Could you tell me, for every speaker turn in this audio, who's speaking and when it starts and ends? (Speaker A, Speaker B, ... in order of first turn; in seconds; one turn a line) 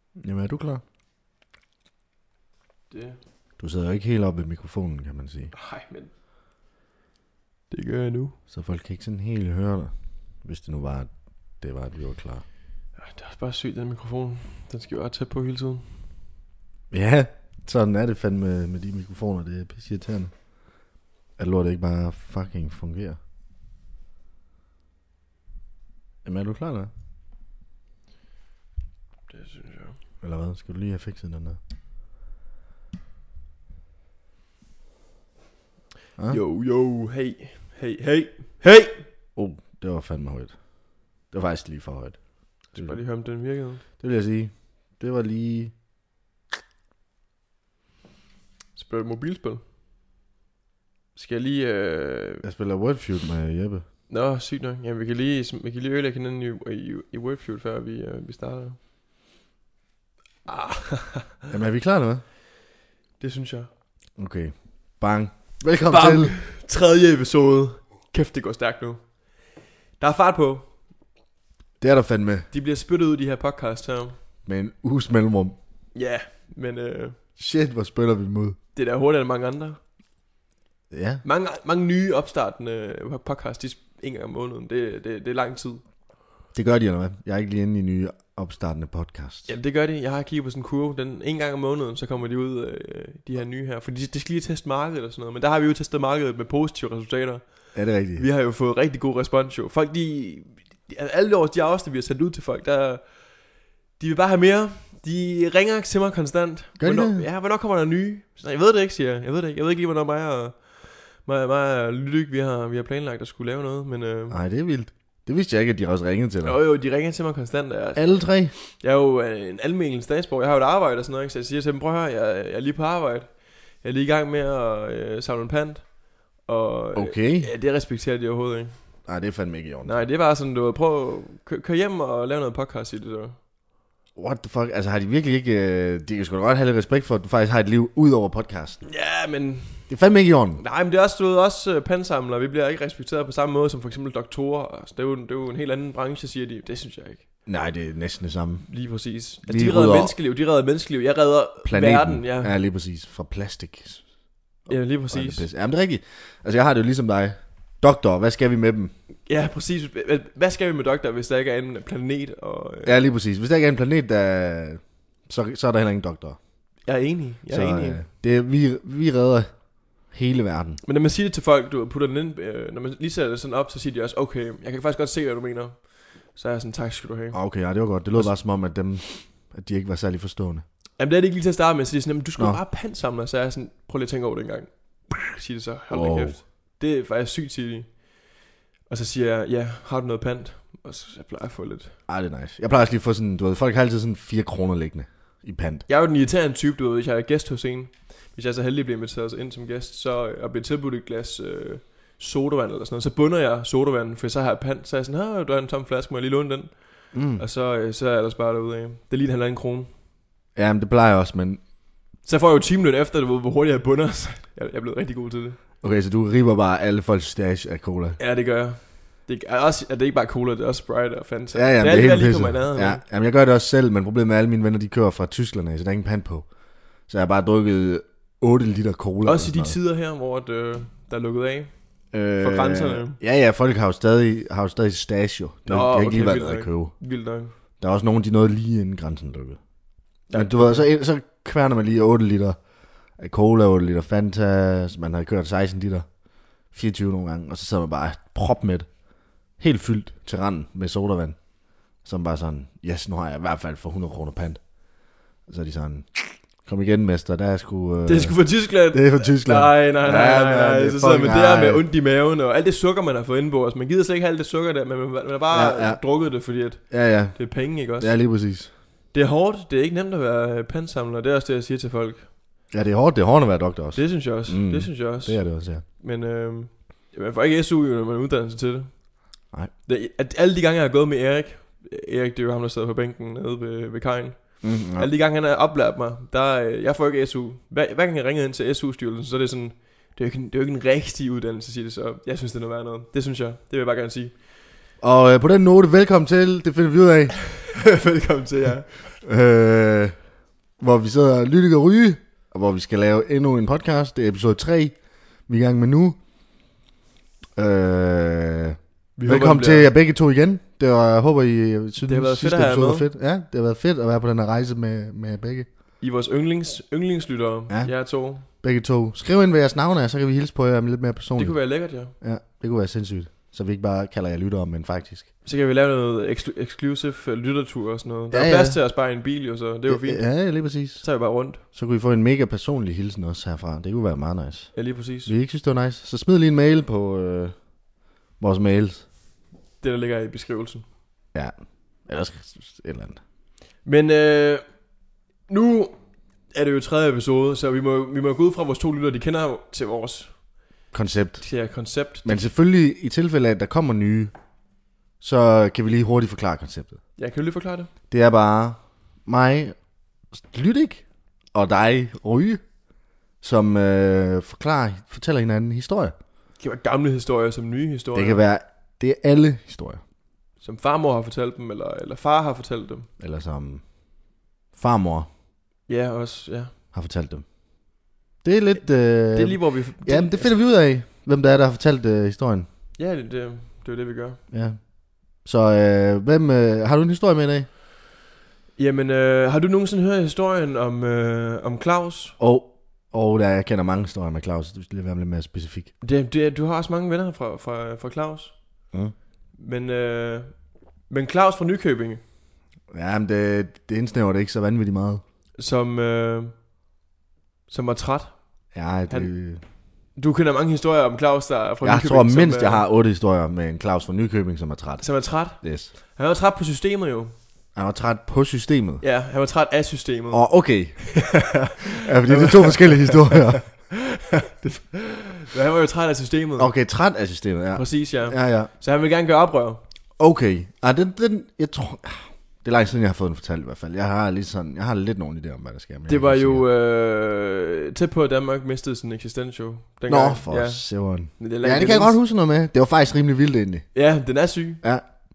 Speaker A: 0.2-0.8
Speaker B: 2.9-3.2
Speaker A: 3.6-5.5
Speaker B: 5.5-6.1
Speaker B: 7.7-8.3
Speaker A: 8.5-9.9
Speaker A: 10.4-12.4
Speaker B: 12.9-15.9
Speaker A: 16.9-20.3
Speaker A: 21.4-23.2
Speaker A: 26.2-26.9
Speaker B: 29.3-29.9
Speaker A: 30.2-31.6
Speaker B: 36.3-39.0
Speaker A: 39.4-40.7
Speaker A: 41.2-43.0
Speaker B: 42.7-43.8
Speaker A: 44.0-45.8
Speaker B: 48.7-49.6
Speaker B: 51.1-52.4
Speaker A: 52.4-53.8
Speaker B: 54.1-58.8
Speaker B: 60.5-61.4
Speaker A: 61.5-62.2
Speaker B: 63.2-63.7
Speaker A: 64.2-66.3
Speaker B: 65.8-69.1
Speaker B: 70.0-70.7
Speaker A: 71.8-72.5
Speaker B: 72.5-74.2
Speaker A: 74.4-75.5
Speaker B: 75.9-77.2
Speaker A: 77.4-78.6
Speaker B: 78.7-79.8
Speaker A: 80.9-81.2
Speaker B: 81.2-85.8
Speaker A: 86.5-89.5
Speaker B: 89.5-103.3
Speaker A: 97.7-98.2
Speaker B: 104.0-114.4
Speaker A: 106.8-107.2
Speaker A: 114.3-116.6
Speaker B: 116.4-128.8
Speaker A: 118.0-118.5
Speaker A: 126.9-127.5
Speaker A: 129.1-129.9
Speaker B: 129.8-133.4
Speaker A: 134.1-138.8
Speaker B: 138.8-139.9
Speaker A: 139.9-140.6
Speaker B: 140.6-147.2
Speaker A: 147.4-148.7
Speaker B: 148.6-152.5
Speaker A: 149.4-150.1
Speaker A: 151.6-154.0
Speaker A: 154.7-158.9
Speaker B: 154.7-155.4
Speaker B: 159.2-163.0
Speaker A: 162.8-166.4
Speaker B: 166.8-168.0
Speaker A: 167.5-170.8
Speaker B: 170.8-178.4
Speaker A: 177.3-180.6
Speaker B: 181.0-188.3
Speaker A: 185.9-186.4
Speaker B: 188.9-191.9
Speaker A: 192.1-195.8
Speaker B: 195.9-209.9
Speaker A: 207.1-207.4
Speaker A: 210.5-211.6
Speaker B: 212.2-215.6
Speaker A: 215.8-218.2
Speaker B: 218.2-223.0
Speaker A: 221.5-226.5
Speaker A: 227.1-229.7
Speaker B: 229.2-231.7
Speaker A: 232.1-236.9
Speaker B: 232.4-233.2
Speaker B: 235.7-237.5
Speaker A: 237.8-239.6
Speaker B: 240.3-240.9
Speaker A: 240.3-242.6
Speaker A: 243.2-246.1
Speaker A: 246.7-249.0
Speaker A: 249.6-254.6
Speaker A: 255.4-261.8
Speaker B: 258.1-268.1
Speaker A: 265.5-266.0
Speaker A: 266.9-268.7
Speaker B: 269.1-272.3
Speaker A: 272.7-275.8
Speaker B: 273.9-279.1
Speaker B: 279.9-294.3
Speaker A: 284.6-285.1
Speaker A: 295.0-297.4
Speaker B: 297.7-299.2
Speaker A: 299.2-300.2
Speaker A: 300.8-306.2
Speaker A: 307.6-315.7
Speaker B: 309.1-309.9
Speaker B: 312.0-313.1
Speaker B: 316.0-318.5
Speaker A: 317.7-325.3
Speaker B: 321.4-322.1
Speaker B: 325.4-330.4
Speaker A: 328.3-328.8
Speaker A: 329.9-331.0
Speaker B: 331.0-331.6
Speaker A: 331.7-337.6
Speaker B: 334.7-335.3
Speaker A: 338.4-339.0
Speaker B: 339.8-340.8
Speaker A: 342.1-343.2
Speaker B: 343.8-344.6
Speaker B: 345.5-345.9
Speaker B: 346.5-350.3
Speaker A: 350.9-351.4
Speaker B: 351.4-352.5
Speaker A: 352.2-354.3
Speaker A: 355.2-356.9
Speaker B: 357.2-357.9
Speaker A: 358.1-359.8
Speaker A: 360.3-362.6
Speaker A: 363.4-366.1
Speaker B: 366.6-368.4
Speaker A: 368.1-370.0
Speaker B: 370.6-373.1
Speaker A: 373.2-373.9
Speaker A: 374.8-375.3
Speaker B: 375.9-376.7
Speaker A: 376.9-377.4
Speaker A: 378.4-382.6
Speaker B: 379.3-380.5
Speaker B: 383.0-384.4
Speaker A: 384.5-387.7
Speaker B: 388.8-392.4
Speaker A: 392.4-395.9
Speaker B: 396.0-398.5
Speaker B: 399.5-400.5
Speaker B: 401.1-402.2
Speaker A: 402.9-405.2
Speaker B: 405.6-406.5
Speaker B: 407.7-408.6
Speaker A: 408.7-409.6
Speaker B: 410.1-412.8
Speaker A: 411.8-415.9
Speaker B: 415.0-417.3
Speaker A: 417.7-419.0
Speaker B: 419.0-424.0
Speaker A: 420.3-421.4
Speaker A: 422.0-423.9
Speaker B: 424.5-426.7
Speaker A: 426.6-428.7
Speaker B: 427.7-429.8
Speaker A: 430.2-436.6
Speaker B: 436.1-442.2
Speaker A: 440.1-443.9
Speaker B: 443.9-444.8